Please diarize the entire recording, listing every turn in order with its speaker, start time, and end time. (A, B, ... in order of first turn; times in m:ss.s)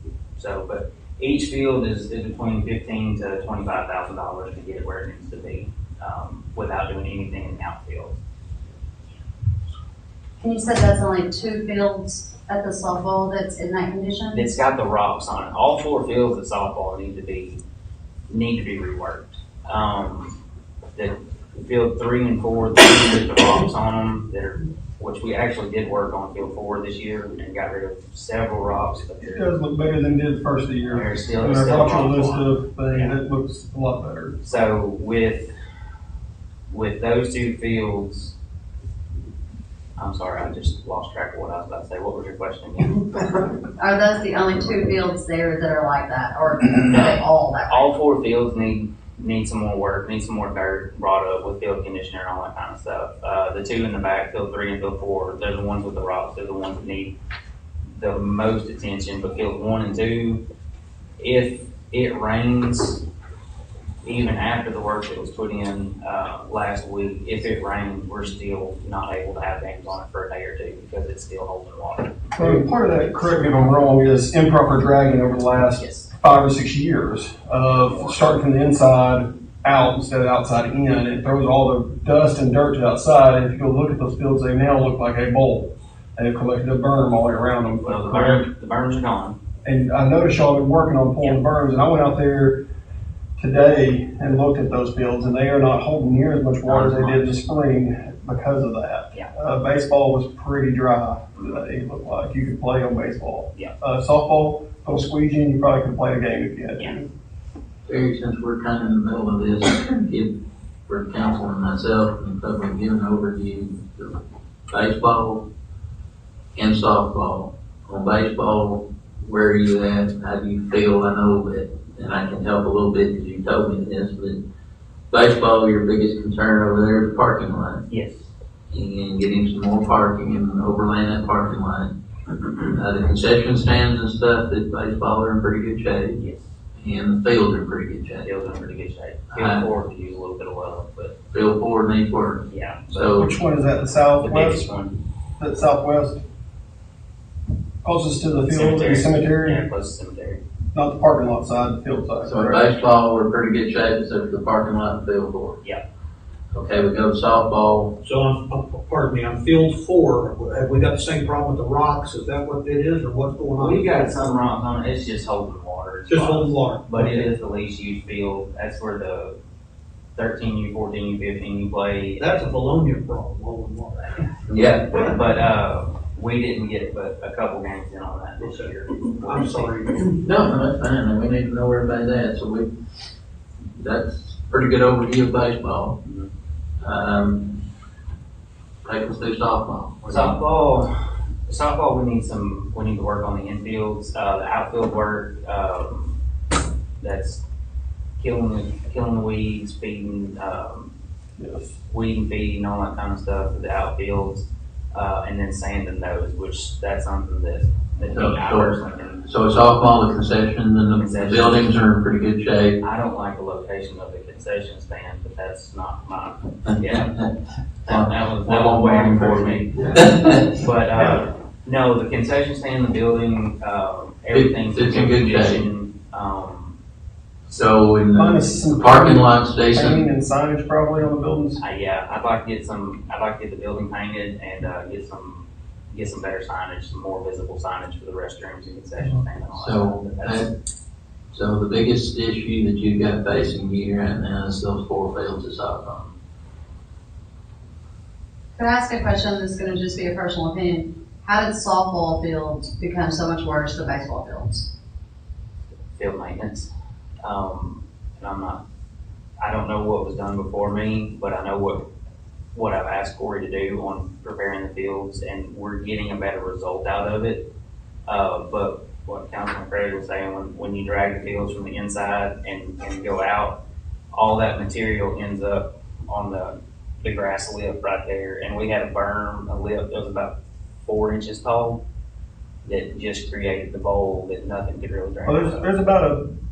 0:00.4-0:08.2 A
0:10.4-0:14.5 B
0:14.3-0:17.6 A
0:18.3-0:20.4 A
0:21.0-0:29.5 A
0:29.2-0:34.4 C
0:30.9-0:33.1 A
0:34.4-0:35.5 A
0:36.7-0:38.4 A
0:40.0-0:43.3 A
0:43.6-0:47.9 B
0:46.9-0:47.2 A
0:47.7-0:57.1 A
0:57.9-1:00.4 A
1:01.2-1:03.0 A
1:04.0-1:12.6 A
1:12.4-1:28.5 C
1:15.8-1:16.1 A
1:17.9-1:18.2 A
1:27.8-1:29.4 A
1:29.6-1:32.6 C
1:33.4-1:47.1 C
1:36.6-1:37.3 A
1:47.9-1:54.2 D
1:54.7-1:55.5 D
1:56.6-2:04.4 D
2:05.1-2:07.8 D
2:07.9-2:08.3 A
2:08.7-2:16.2 D
2:16.2-2:16.5 A
2:16.8-2:18.3 D
2:18.2-2:21.2 A
2:19.3-2:19.7 D
2:21.3-2:23.3 D
2:22.5-2:25.0 A
2:23.2-2:24.6 C
2:25.4-2:26.2 C
2:27.8-2:29.6 C
2:28.5-2:30.4 A
2:30.7-2:32.7 C
2:32.2-2:35.6 D
2:36.5-2:38.0 D
2:38.0-2:44.2 E
2:43.6-2:49.4 A
2:46.1-2:47.3 E
2:50.2-2:52.3 A
2:52.2-2:54.3 E
2:54.5-2:59.7 A
2:54.5-2:55.0 D
2:58.4-3:00.2 E
3:00.2-3:02.7 D
3:03.8-3:06.0 D
3:06.0-3:06.3 A
3:06.8-3:07.6 D
3:08.8-3:10.4 D
3:10.1-3:10.9 A
3:11.5-3:16.2 A
3:17.0-3:17.4 A
3:18.2-3:20.9 A
3:21.4-3:21.8 C
3:21.9-3:29.2 A
3:28.0-3:32.8 D
3:30.8-3:31.8 A
3:32.8-3:37.2 A
3:36.9-3:37.2 D
3:37.8-3:46.8 A
3:37.8-3:40.6 D
3:39.8-3:40.1 C
3:40.9-3:41.2 C
3:44.3-3:45.6 D
3:47.5-3:50.0 D
3:48.1-3:51.6 C
3:51.6-4:00.5 A
3:59.5-4:00.5 D
4:01.3-4:06.2 D
4:08.6-4:14.7 B
4:15.9-4:16.7 A
4:17.2-4:18.6 A
4:19.4-4:21.8 A
4:22.5-4:27.5 A
4:28.1-4:33.6 A
4:34.1-4:41.8 A
4:42.6-4:45.7 A
4:45.2-4:46.3 C